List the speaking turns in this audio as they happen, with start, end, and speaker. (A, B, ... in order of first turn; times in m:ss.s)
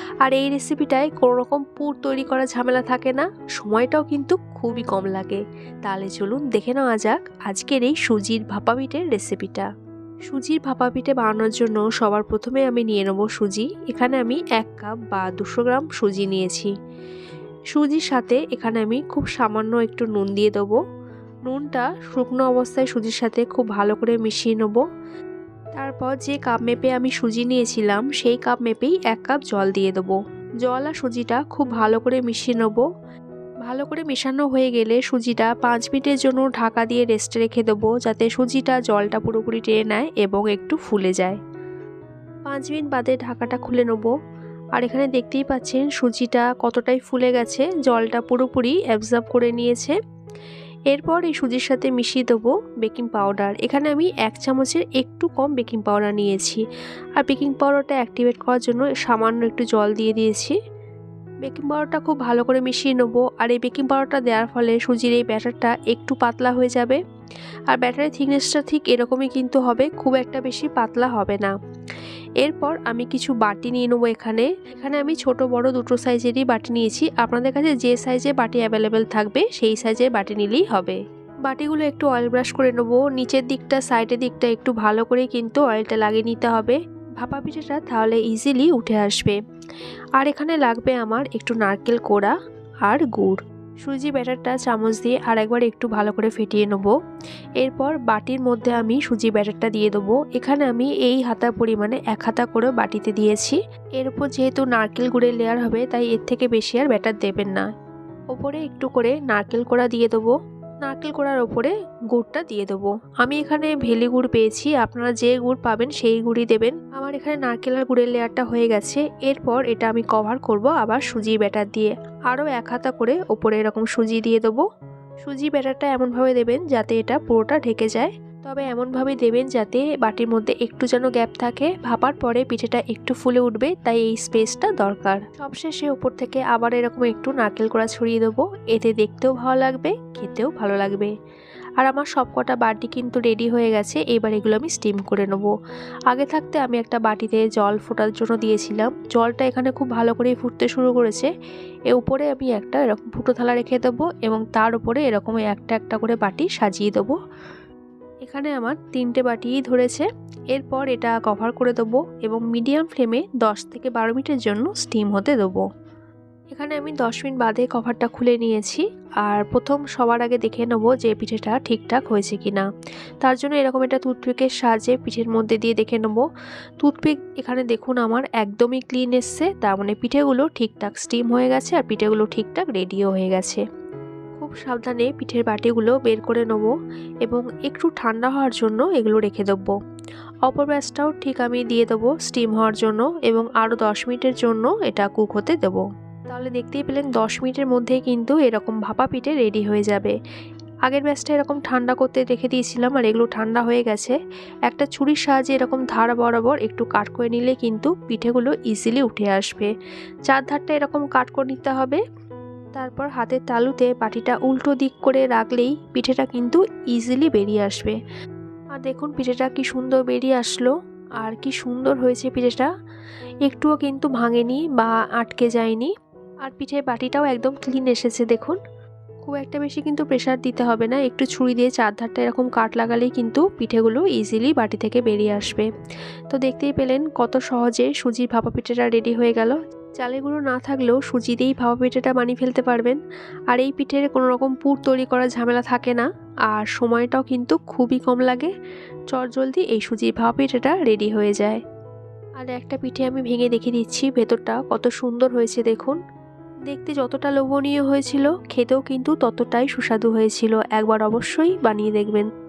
0:00.2-0:09.7 A
0:10.3-0:16.7 A
0:17.7-0:20.8 A
0:21.5-0:24.8 A
0:25.8-0:32.8 A
0:33.6-0:41.4 A
0:42.5-0:44.1 A
0:44.8-0:50.0 A
0:50.9-0:56.6 A
0:57.2-1:00.5 A
1:01.4-1:07.0 A
1:07.7-1:11.5 A
1:12.4-1:29.4 A
1:30.2-1:32.3 A
1:32.8-1:36.9 A
1:37.6-1:47.6 A
1:48.3-1:50.3 A
1:50.8-2:04.6 A
2:05.2-2:21.1 A
2:21.8-2:25.5 A
2:26.1-2:31.3 A
2:31.9-2:37.2 A
2:38.2-2:45.6 A
2:46.5-2:52.6 A
2:53.2-2:56.2 A
2:56.8-3:03.6 A
3:04.4-3:06.7 A
3:07.2-3:09.7 A
3:10.5-3:20.1 A
3:20.8-3:24.2 A
3:24.7-3:29.7 A
3:30.3-3:32.0 A
3:32.8-3:38.0 A
3:38.8-3:42.7 A
3:43.4-3:45.9 A
3:46.4-3:48.6 A
3:49.2-3:55.6 A
3:56.3-4:03.0 A
4:03.5-4:08.5 A
4:09.1-4:11.6 A
4:12.4-4:16.0 A
4:16.7-4:22.2 A